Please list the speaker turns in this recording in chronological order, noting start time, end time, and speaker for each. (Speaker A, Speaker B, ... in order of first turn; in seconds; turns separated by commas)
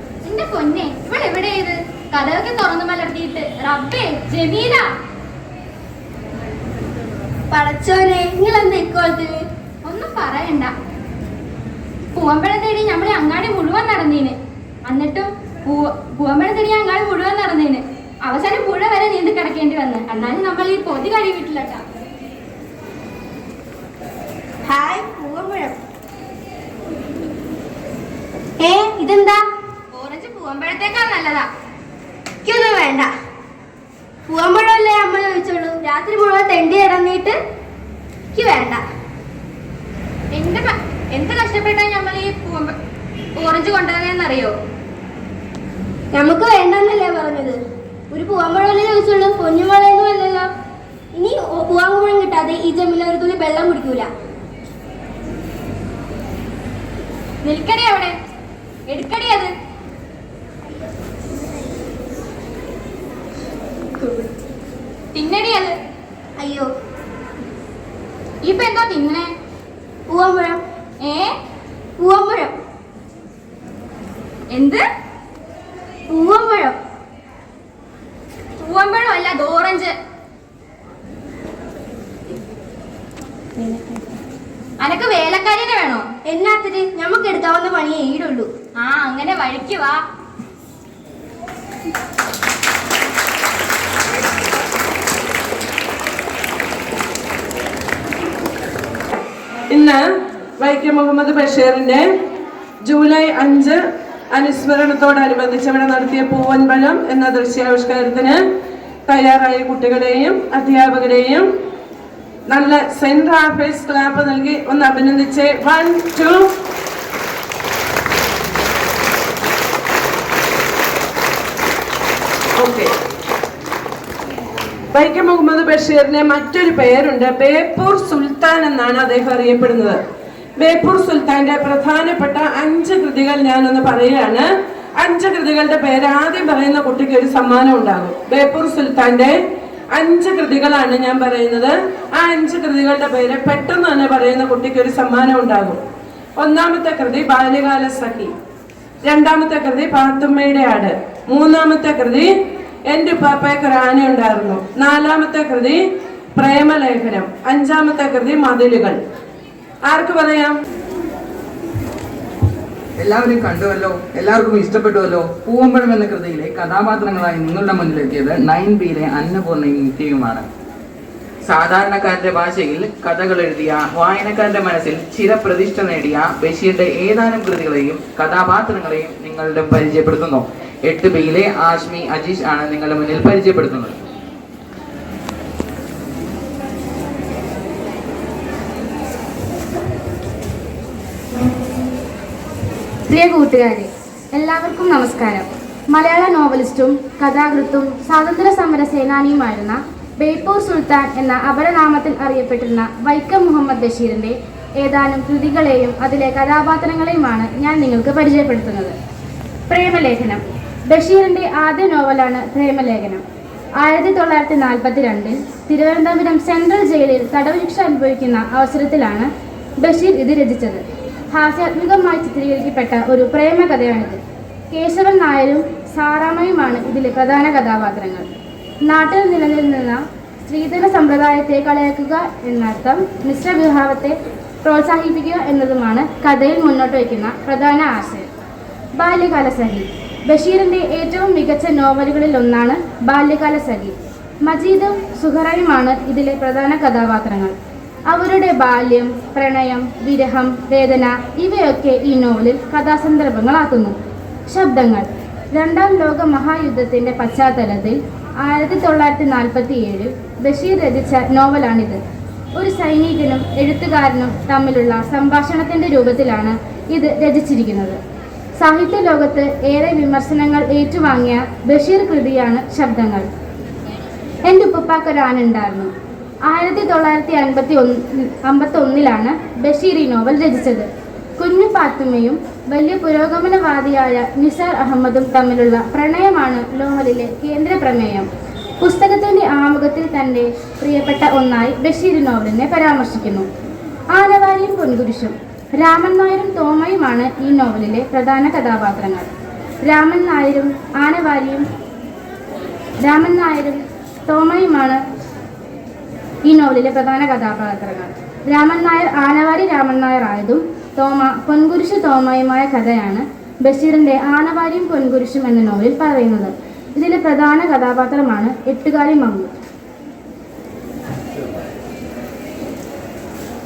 Speaker A: 0.2-4.9, Speaker B: 7.5-9.4, Speaker A: 9.8-10.7, Speaker A: 12.2-21.8, Speaker B: 24.6-25.8, Speaker B: 28.6-29.4, Speaker A: 29.9-31.5, Speaker B: 32.5-33.1, Speaker B: 34.3-37.4, Speaker B: 38.3-38.8, Speaker A: 40.3-42.7, Speaker A: 43.4-44.5, Speaker B: 46.1-47.6, Speaker B: 48.1-50.5, Speaker B: 51.1-54.1, Speaker A: 57.4-58.1, Speaker A: 58.9-59.5, Speaker B: 64.0-64.3, Speaker A: 65.1-65.8, Speaker B: 66.4-66.7, Speaker A: 68.4-69.3, Speaker B: 70.1-70.6, Speaker A: 71.0-71.3, Speaker B: 72.0-72.5, Speaker A: 74.5-74.8, Speaker B: 76.1-76.8, Speaker A: 78.6-79.9, Speaker A: 84.8-86.1, Speaker B: 86.3-88.5, Speaker A: 88.8-90.0, Speaker C: 99.7-100.0, Speaker C: 100.6-102.1, Speaker C: 102.8-103.8, Speaker C: 104.3-108.4, Speaker C: 109.1-111.4, Speaker C: 112.5-116.5, Speaker C: 122.6-122.9, Speaker C: 124.9-130.0, Speaker C: 130.6-134.5, Speaker C: 135.0-139.3, Speaker C: 139.9-145.8, Speaker C: 146.4-148.3, Speaker C: 149.1-152.3, Speaker C: 152.9-155.8, Speaker C: 156.3-159.0, Speaker C: 159.8-160.5, Speaker D: 163.0-170.5, Speaker D: 171.4-183.9, Speaker E: 193.1-208.9, Speaker E: 209.7-213.2, Speaker E: 213.8-219.3, Speaker E: 219.8-224.2, Speaker E: 224.7-228.3, Speaker E: 228.8-238.3, Speaker E: 239.0-247.5, Speaker E: 248.1-253.9, Speaker E: 254.5-262.0, Speaker E: 262.6-268.0, Speaker E: 268.6-273.3, Speaker E: 274.4-275.9, Speaker E: 276.5-288.3, Speaker E: 288.8-293.5, Speaker E: 294.1-299.3, Speaker E: 299.8-301.7, Speaker E: 303.0-305.0, Speaker E: 306.4-319.5